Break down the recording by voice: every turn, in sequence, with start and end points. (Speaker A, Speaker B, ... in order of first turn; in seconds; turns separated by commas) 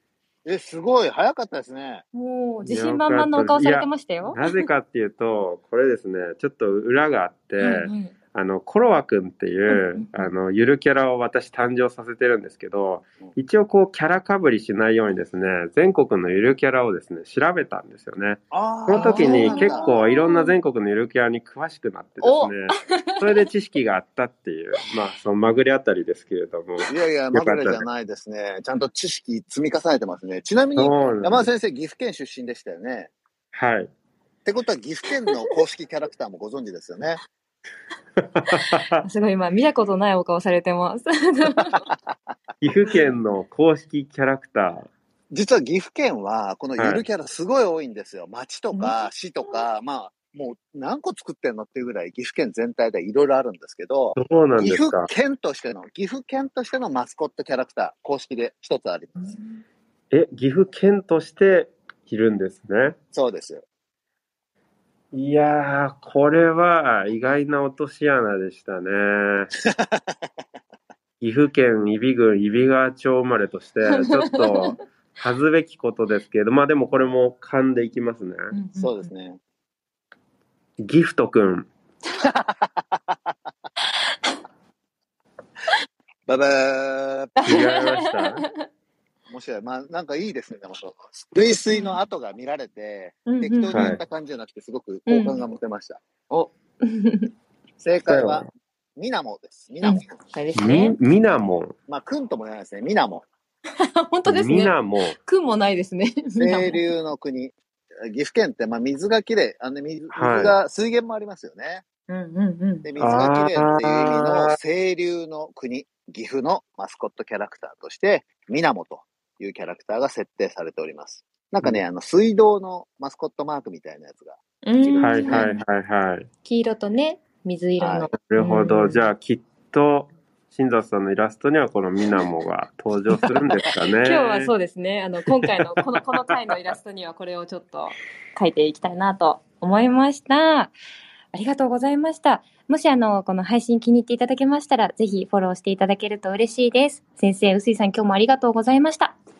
Speaker A: 0.4-2.0, Speaker B: 2.1-4.6, Speaker C: 2.6-27.9, Speaker B: 7.6-8.1, Speaker B: 9.7-10.3, Speaker A: 18.5-19.9, Speaker B: 18.9-20.6, Speaker B: 22.2-23.4, Speaker A: 26.9-33.1, Speaker C: 30.8-31.5, Speaker C: 33.5-33.9, Speaker A: 34.4-37.2, Speaker B: 38.5-41.8, Speaker C: 42.6-44.9, Speaker A: 45.3-59.3, Speaker C: 46.8-47.0, Speaker C: 54.1-55.1, Speaker C: 60.1-63.0, Speaker A: 63.1-63.6, Speaker C: 65.1-69.5, Speaker C: 71.2-78.5, Speaker B: 73.9-74.8, Speaker B: 78.5-79.1, Speaker A: 78.8-79.4, Speaker C: 80.8-81.7, Speaker A: 82.2-82.7, Speaker A: 86.3-87.4, Speaker B: 87.4-88.7, Speaker C: 87.5-88.4, Speaker A: 89.3-96.0, Speaker B: 91.7-92.0, Speaker B: 93.2-93.9, Speaker C: 93.7-94.0, Speaker B: 95.1-95.4, Speaker B: 96.3-97.3, Speaker A: 97.8-100.1, Speaker C: 98.0-98.5, Speaker B: 99.8-101.0, Speaker C: 100.5-101.7, Speaker A: 101.9-103.2, Speaker B: 103.8-106.8, Speaker C: 104.2-105.2, Speaker A: 106.3-111.8, Speaker C: 110.1-110.5, Speaker B: 112.1-112.9, Speaker A: 112.8-125.5, Speaker C: 113.0-114.6, Speaker B: 124.6-125.6, Speaker C: 125.0-126.3, Speaker B: 126.4-129.1, Speaker A: 127.8-128.1, Speaker C: 128.2-134.5, Speaker B: 134.0-140.7, Speaker B: 141.3-149.2